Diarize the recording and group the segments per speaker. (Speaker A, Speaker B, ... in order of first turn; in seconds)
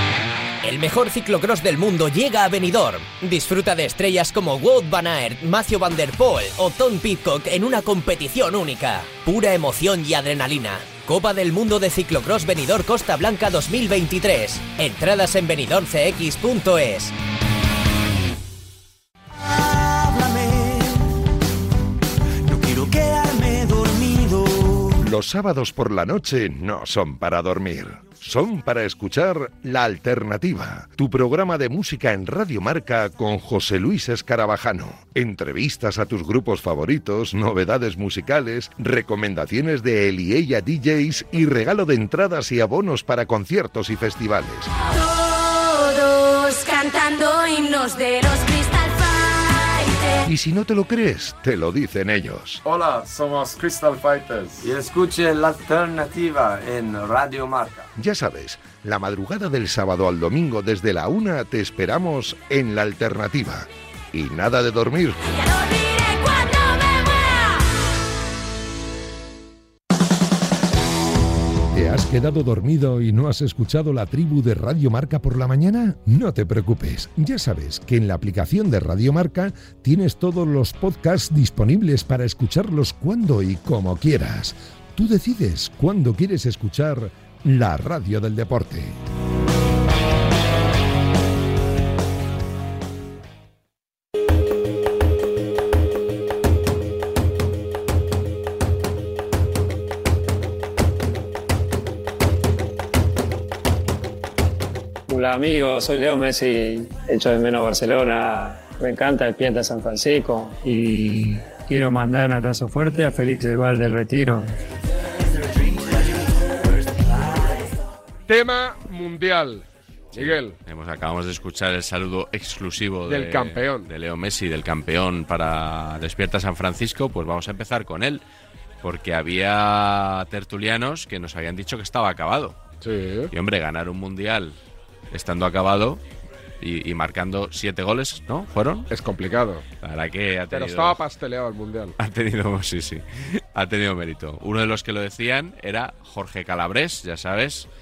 Speaker A: 0.6-17.1
Speaker B: 25.0-44.7, 50.2-52.6, 58.0-65.2, 71.7-89.0
Speaker C: 45.0-50.2, 65.4-67.3
Speaker D: 52.6-57.9
Speaker E: 105.1-114.5
Speaker F: 118.3-120.5, 123.1-123.9, 132.8-133.3, 138.9-139.6, 140.5-141.9
Speaker G: 120.1-128.2, 128.8-132.6, 133.3-134.6, 135.1-136.0, 136.6-138.9, 139.8-141.0, 142.0-147.7